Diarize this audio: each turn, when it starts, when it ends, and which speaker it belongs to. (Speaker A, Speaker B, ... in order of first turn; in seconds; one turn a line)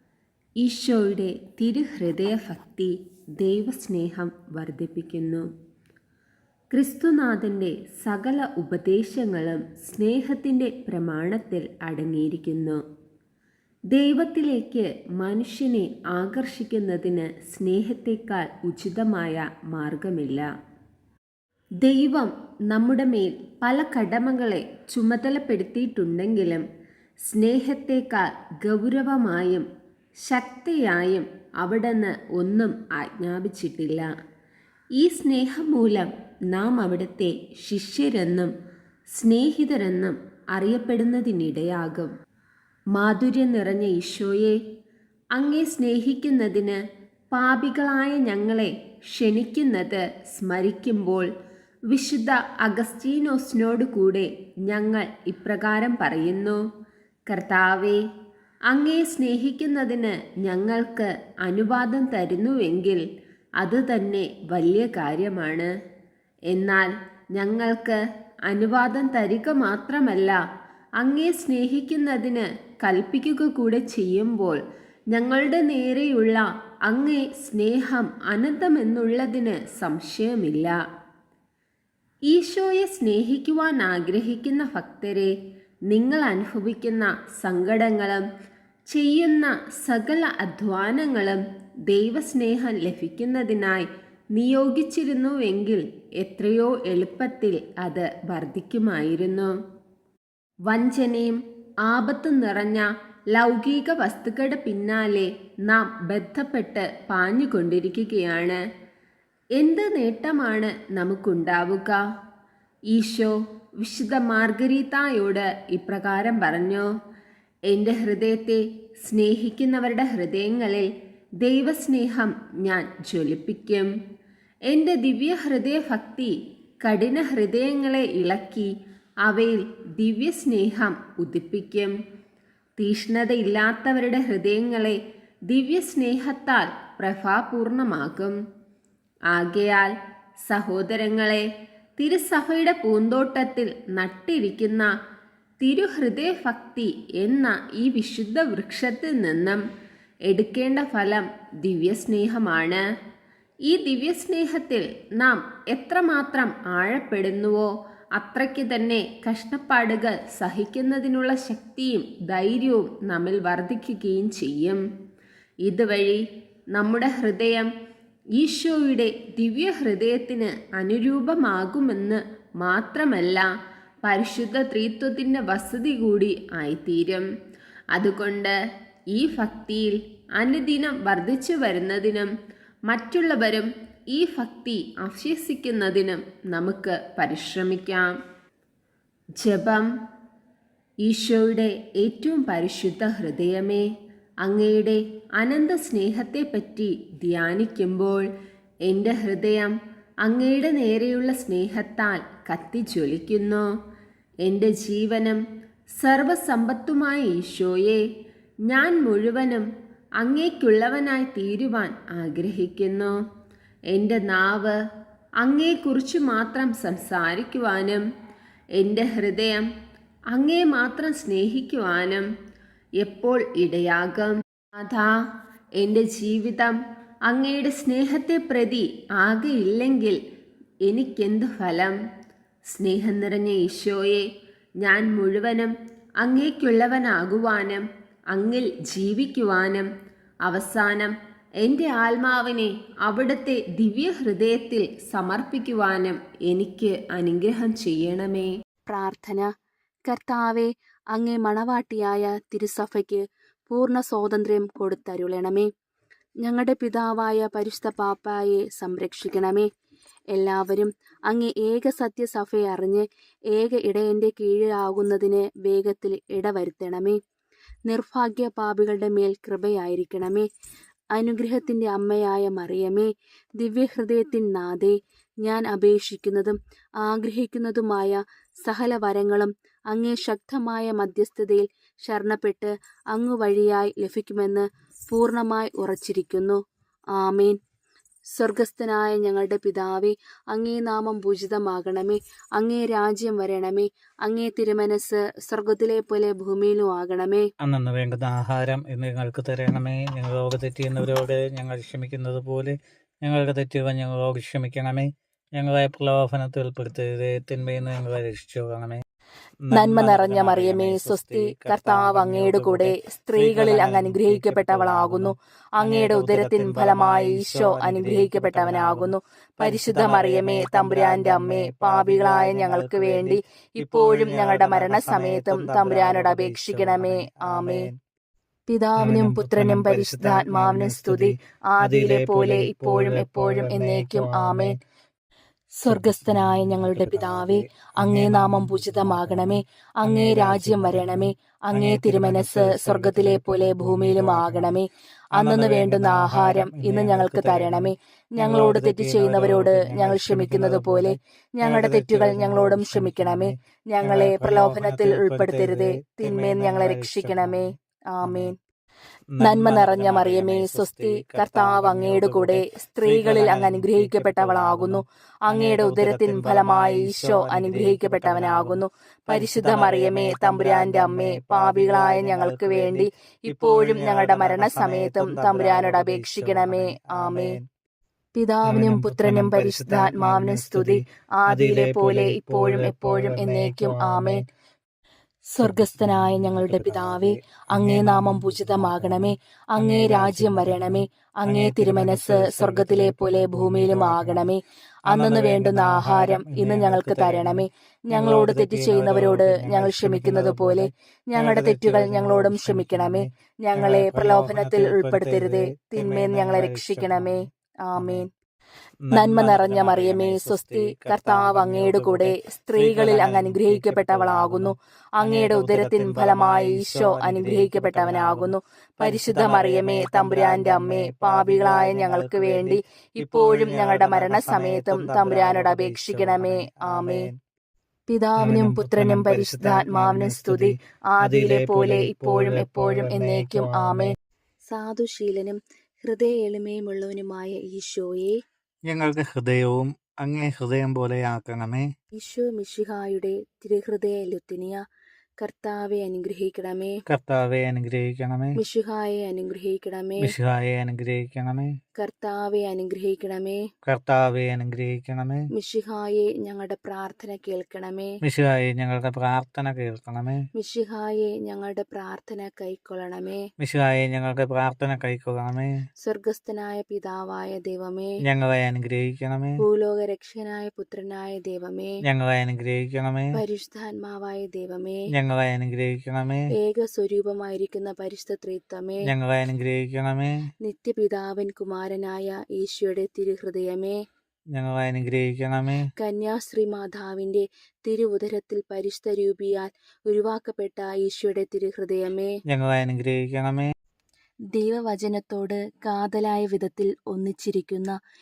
Speaker A: 0.6-5.5
Speaker A: 6.7-12.8
Speaker A: 13.9-20.5
Speaker A: 21.8-26.6
Speaker A: 27.3-29.7
Speaker A: 30.2-34.1
Speaker A: 35.0-38.5
Speaker A: 39.1-42.1
Speaker A: 42.9-44.6
Speaker A: 45.3-46.8
Speaker A: 47.3-51.3
Speaker A: 51.9-56.6
Speaker A: 57.3-58.0
Speaker A: 58.7-63.0
Speaker A: 63.6-65.7
Speaker A: 66.5-70.4
Speaker A: 71.0-80.8
Speaker A: 82.3-85.3
Speaker A: 85.9-88.2
Speaker A: 88.9-99.5
Speaker A: 100.7-108.6
Speaker A: 109.6-112.0
Speaker A: 112.9-116.9
Speaker A: 117.7-120.9
Speaker A: 121.4-123.9
Speaker A: 124.7-128.7
Speaker A: 129.2-131.9
Speaker A: 132.8-135.0
Speaker A: 135.5-138.3
Speaker A: 139.3-139.9
Speaker A: 140.4-141.4
Speaker A: 142.0-144.9
Speaker A: 145.6-149.6
Speaker A: 150.2-152.8
Speaker A: 153.7-164.8
Speaker A: 165.6-166.2
Speaker A: 166.7-167.7
Speaker A: 168.4-173.5
Speaker A: 174.0-177.3
Speaker A: 177.9-178.5
Speaker A: 179.1-182.3
Speaker A: 182.9-188.1
Speaker A: 189.4-189.9
Speaker A: 191.0-193.8
Speaker A: 194.4-198.2
Speaker A: 198.8-199.7
Speaker A: 200.2-203.7
Speaker A: 204.4-205.4
Speaker A: 206.0-208.0
Speaker A: 208.7-209.7
Speaker A: 210.2-213.2
Speaker A: 213.9-214.7
Speaker A: 215.4-218.0
Speaker A: 218.8-219.7
Speaker A: 220.3-222.2
Speaker A: 223.0-225.1
Speaker A: 225.8-226.8
Speaker A: 227.3-230.2
Speaker A: 230.8-232.0
Speaker A: 232.7-234.2
Speaker A: 234.8-239.9
Speaker A: 240.4-248.5
Speaker B: 248.9-249.5
Speaker B: 250.1-255.7
Speaker B: 256.4-259.7
Speaker B: 260.3-267.2
Speaker B: 267.9-270.4
Speaker B: 271.1-286.6
Speaker B: 287.2-287.6
Speaker B: 288.3-297.4
Speaker C: 297.6-309.0
Speaker C: 309.6-327.9
Speaker B: 309.7-327.9
Speaker B: 328.7-334.8
Speaker C: 329.0-334.8
Speaker B: 335.8-358.6
Speaker C: 335.9-344.8
Speaker C: 345.3-357.7
Speaker C: 358.2-358.5
Speaker C: 359.3-377.6
Speaker B: 359.4-377.6
Speaker B: 378.3-384.4
Speaker C: 378.6-384.4
Speaker B: 385.5-408.3
Speaker C: 385.6-394.5
Speaker C: 395.1-407.4
Speaker C: 407.9-408.2
Speaker C: 409.0-427.4
Speaker B: 409.1-427.3
Speaker B: 428.1-434.1
Speaker C: 428.4-434.1
Speaker B: 434.7-438.4
Speaker C: 438.9-441.9
Speaker B: 442.2-444.8
Speaker B: 445.4-446.9
Speaker C: 447.1-448.6
Speaker B: 448.6-450.3
Speaker C: 450.2-451.7
Speaker B: 452.0-453.6
Speaker C: 453.8-455.4
Speaker B: 455.5-458.2
Speaker C: 458.2-460.4
Speaker B: 460.6-463.4
Speaker C: 463.6-465.7
Speaker B: 466.0-468.1
Speaker C: 468.2-469.6
Speaker B: 469.6-471.9
Speaker C: 472.1-473.3
Speaker B: 473.3-475.0
Speaker C: 475.1-476.4
Speaker B: 476.5-479.1
Speaker C: 479.1-480.4
Speaker B: 480.6-484.0
Speaker C: 484.5-485.9
Speaker B: 486.0-492.3
Speaker C: 492.5-493.7
Speaker B: 494.5-497.9